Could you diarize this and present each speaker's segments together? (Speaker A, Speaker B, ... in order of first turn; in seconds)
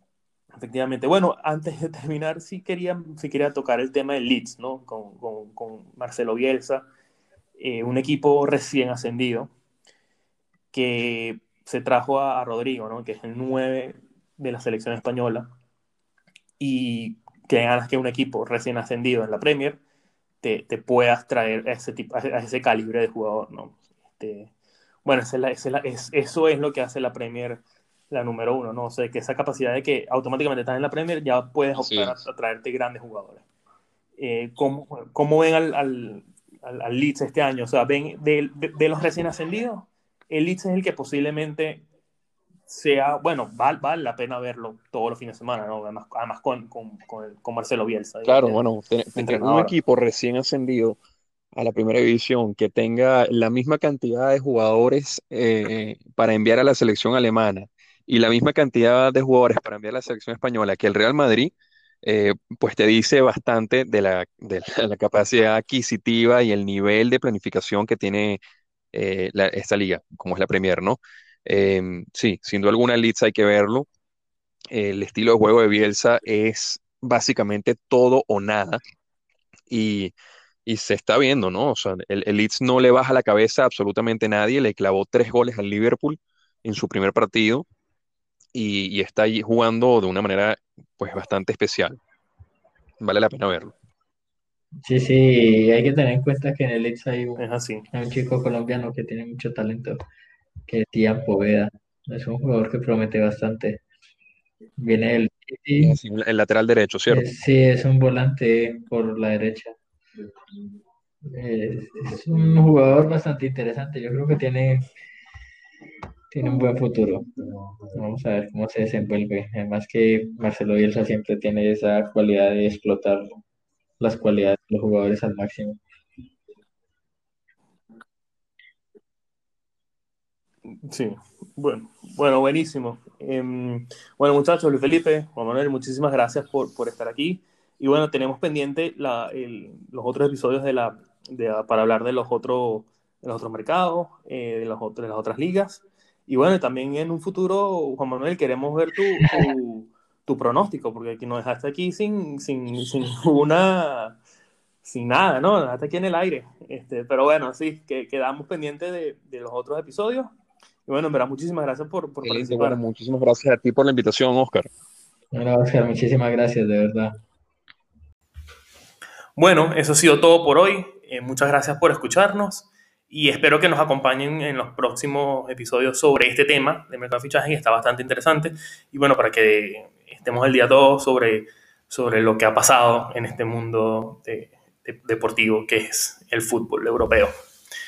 Speaker A: 0.6-6.9, 7.6-9.5, 10.7-15.5, 16.6-19.8, 20.4-24.5, 25.0-33.4, 34.2-41.8, 42.7-48.6, 49.1-49.7, 97.3-97.8, 130.8-154.2, 154.8-160.3, 160.9-162.8, 169.4-187.3
Speaker B: 31.8-32.2, 48.2-51.0, 51.5-68.4, 68.9-73.9, 74.7-78.8, 79.7-80.1, 80.7-87.7, 88.5-92.0, 93.0-93.7, 105.8-107.3, 162.2-164.7
Speaker C: 94.8-100.0, 100.7-103.8, 104.8-106.0, 107.1-109.8, 111.2-114.9, 116.3-117.3, 117.9-123.2, 124.0-125.8, 165.3-167.2